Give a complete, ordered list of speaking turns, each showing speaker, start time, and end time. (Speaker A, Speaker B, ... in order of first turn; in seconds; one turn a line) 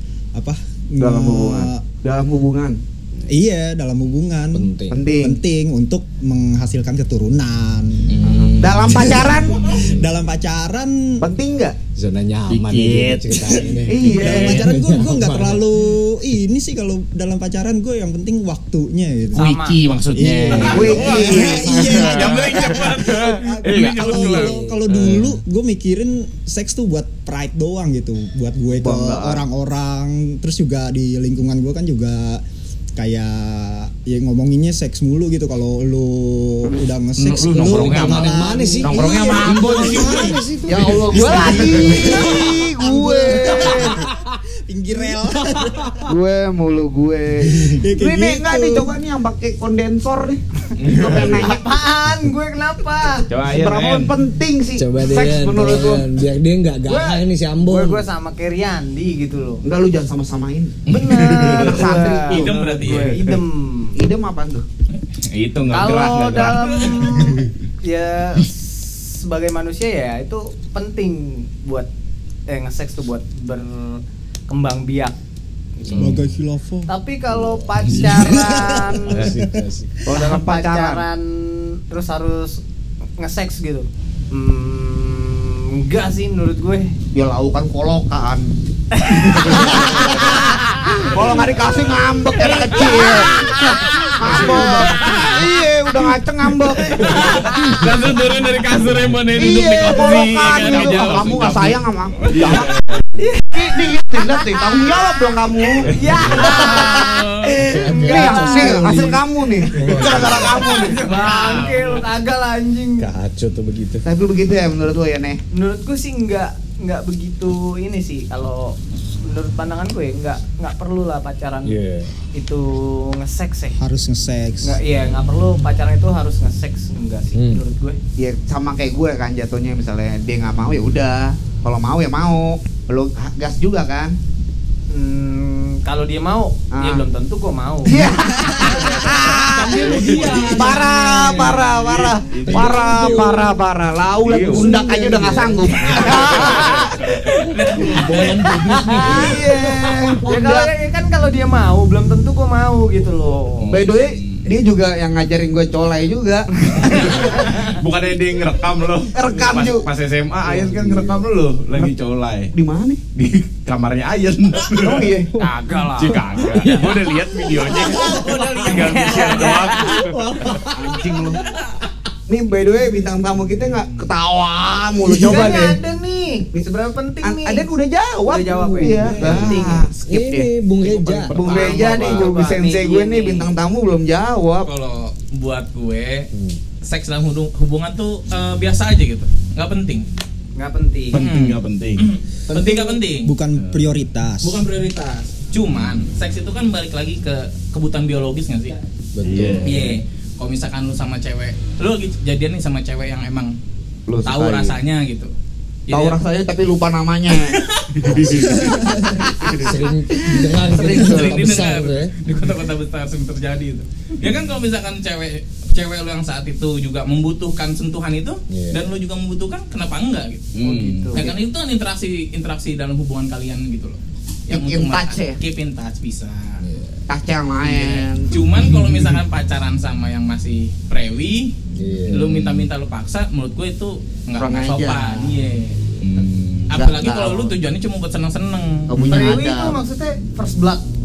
Speaker A: 0.3-1.8
Speaker B: 1.0-2.8
Speaker A: 3.3-8.2
Speaker C: 4.5-5.0
Speaker B: 4.9-5.4
Speaker D: 8.1-9.2
Speaker B: 8.2-9.8
Speaker A: 8.9-11.2
Speaker B: 11.2-11.8
Speaker C: 11.9-15.6
Speaker D: 12.5-13.7
Speaker B: 13.8-14.6
Speaker A: 14.1-19.6
Speaker D: 14.2-14.6
Speaker E: 19.4-19.8
Speaker D: 19.4-24.5
Speaker A: 20.1-32.4
Speaker F: 20.4-24.5
Speaker B: 20.6-21.9
Speaker C: 24.3-25.4
Speaker B: 28.7-29.4
Speaker A: 33.0-40.3
Speaker D: 37.2-40.3
Speaker C: 37.4-41.4
Speaker F: 39.3-40.3
Speaker B: 40.7-44.0
Speaker E: 41.1-41.9
Speaker A: 41.4-44.1
Speaker D: 41.5-42.0
Speaker A: 44.6-46.1
Speaker B: 46.0-51.6
Speaker A: 47.4-48.9
Speaker D: 50.8-51.5
Speaker E: 51.0-53.3
Speaker D: 53.3-54.1
Speaker B: 53.4-56.1
Speaker C: 54.8-58.1
Speaker E: 56.9-59.6
Speaker B: 59.6-63.1
Speaker D: 60.9-61.8
Speaker E: 60.9-64.0
Speaker F: 61.9-63.2
Speaker D: 62.8-63.4
Speaker B: 63.9-64.6
Speaker D: 65.3-67.5
Speaker E: 65.7-71.9
Speaker F: 66.8-67.1
Speaker E: 72.5-75.2
Speaker C: 75.8-76.2
Speaker D: 75.8-76.2
Speaker A: 76.0-76.9
Speaker E: 76.9-79.3
Speaker C: 77.3-80.1
Speaker D: 77.8-78.2
Speaker A: 78.2-79.6
Speaker D: 79.1-79.4
Speaker B: 80.0-81.0
Speaker E: 80.1-82.6
Speaker E: 83.2-86.9
Speaker B: 87.1-88.5
Speaker E: 88.9-91.4
Speaker B: 89.1-93.5
Speaker E: 92.4-95.2
Speaker B: 94.2-97.3
Speaker A: 94.4-94.9
Speaker F: 94.9-95.3
Speaker F: 97.0-101.7
Speaker E: 97.0-97.6
Speaker C: 97.1-97.9
Speaker B: 99.3-102.7
Speaker D: 100.5-101.7
Speaker F: 102.2-102.6
Speaker D: 102.3-103.0
Speaker E: 103.2-105.0
Speaker B: 103.5-107.1
Speaker E: 105.8-109.2
Speaker D: 105.9-106.5
Speaker F: 106.4-107.7
Speaker C: 107.6-110.7
Speaker B: 108.0-111.0
Speaker D: 110.0-111.0
Speaker E: 110.7-113.1
Speaker F: 110.8-112.0
Speaker C: 113.0-114.0
Speaker B: 114.0-115.4
Speaker E: 115.5-121.7
Speaker C: 121.6-122.1
Speaker E: 122.3-123.8
Speaker A: 123.8-124.8
Speaker E: 124.6-128.0
Speaker C: 127.3-127.6
Speaker B: 128.2-134.2
Speaker E: 134.9-140.1
Speaker B: 136.7-137.0
Speaker B: 137.8-146.9
Speaker C: 139.1-141.7
Speaker F: 139.4-140.7
Speaker D: 139.8-140.8
Speaker D: 141.6-143.3
Speaker C: 142.4-143.6
Speaker D: 144.2-144.8
Speaker C: 144.5-146.7
Speaker D: 146.0-147.2
Speaker E: 146.2-146.9
Speaker F: 147.5-148.8
Speaker C: 147.6-150.1
Speaker E: 148.4-149.4
Speaker B: 149.0-150.7
Speaker E: 150.2-153.8
Speaker D: 153.6-154.5
Speaker B: 153.7-157.6
Speaker E: 156.7-157.5
Speaker D: 156.8-162.5
Speaker B: 159.1-159.9
Speaker C: 160.4-161.3
Speaker B: 162.5-163.0
Speaker D: 163.1-170.2
Speaker B: 164.8-165.3
Speaker C: 165.3-168.5
Speaker E: 165.6-166.1
Speaker E: 167.7-170.1
Speaker F: 167.7-169.7
Speaker C: 169.8-171.4
Speaker B: 170.7-171.4
Speaker B: 172.3-175.8
Speaker E: 175.2-177.7
Speaker B: 177.2-184.7
Speaker E: 178.2-179.9
Speaker C: 178.8-181.4
Speaker D: 179.2-179.6
Speaker D: 181.3-182.2
Speaker E: 181.4-183.5
Speaker F: 184.6-186.3
Speaker C: 186.3-186.6
Speaker F: 186.8-190.1
Speaker E: 190.6-191.2
Speaker D: 191.1-192.1
Speaker F: 191.1-193.3
Speaker B: 192.5-192.9
Speaker A: 193.2-194.7
Speaker D: 193.6-193.9
Speaker F: 194.4-198.7
Speaker C: 199.1-200.0
Speaker D: 199.2-199.9
Speaker F: 199.6-203.5
Speaker B: 204.1-204.8
Speaker F: 204.2-205.3
Speaker F: 205.9-206.2
Speaker B: 205.9-208.5
Speaker F: 207.4-207.9
Speaker D: 207.9-208.9
Speaker C: 208.2-212.1
Speaker B: 209.2-211.4
Speaker F: 210.8-220.6
Speaker C: 218.5-218.8
Speaker D: 220.5-221.3
Speaker E: 220.6-221.3
Speaker F: 221.1-226.6
Speaker B: 224.5-225.4
Speaker C: 226.6-226.9
Speaker B: 227.1-228.3
Speaker F: 227.6-231.5
Speaker D: 228.6-229.2
Speaker C: 231.7-232.3
Speaker F: 232.1-235.8
Speaker D: 232.2-232.7
Speaker B: 234.4-235.3
Speaker D: 236.0-236.7
Speaker F: 236.7-238.9
Speaker B: 236.7-237.5
Speaker B: 238.9-239.8
Speaker D: 239.0-239.2
Speaker E: 239.1-240.8